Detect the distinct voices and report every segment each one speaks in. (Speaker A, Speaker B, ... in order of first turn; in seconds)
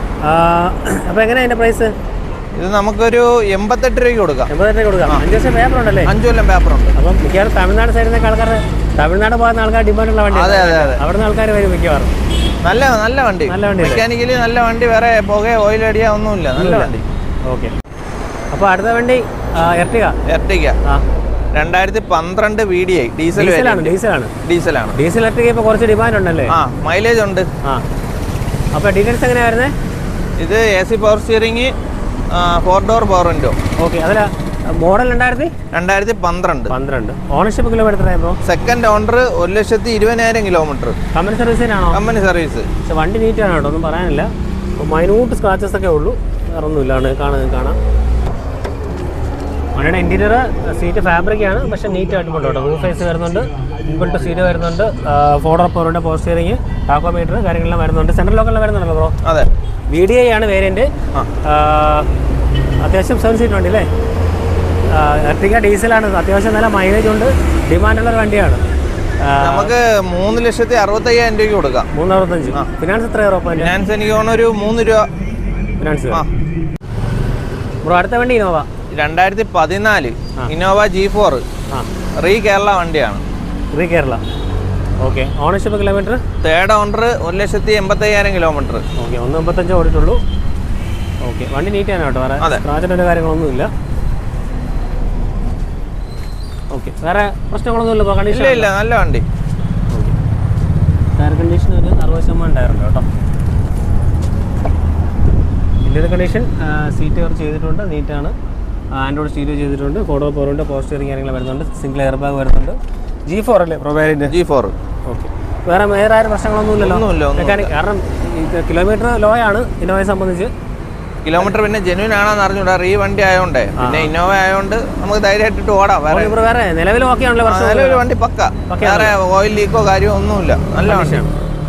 Speaker A: 0.2-1.9, 4.5-6.1, 7.0-12.1, 13.5-14.1, 16.6-16.9, 18.5-20.2, 23.4-24.3, 24.9-26.6, 28.7-29.7, 33.8-35.5, 36.7-38.4, 41.1-42.0, 42.9-47.8, 49.8-59.2, 59.9-60.9, 61.4-62.1, 62.8-63.9, 64.9-68.6, 69.2-69.7, 71.9-73.7, 75.8-76.2, 77.8-78.7, 83.7-84.2, 85.0-86.2, 89.0-90.2, 91.2-93.7, 96.7-98.7, 99.9-100.2, 101.2-103.1, 105.8-108.3, 108.9-114.3, 115.1-120.5, 123.8-124.1, 126.1-128.0, 128.7-129.2, 130.8-131.3
Speaker B: 2.6-4.5, 6.1-7.0, 10.3-11.0, 12.6-17.1, 20.3-20.8, 21.6-25.0, 26.5-27.5, 30.4-31.7, 32.3-33.6, 35.7-36.7, 38.4-41.0, 41.9-42.7, 69.4-71.9, 73.6-75.1, 78.9-81.4, 82.2-83.2, 86.4-88.8, 98.3-99.2, 114.3-114.7, 116.8-117.7, 121.2-126.4, 127.5-131.2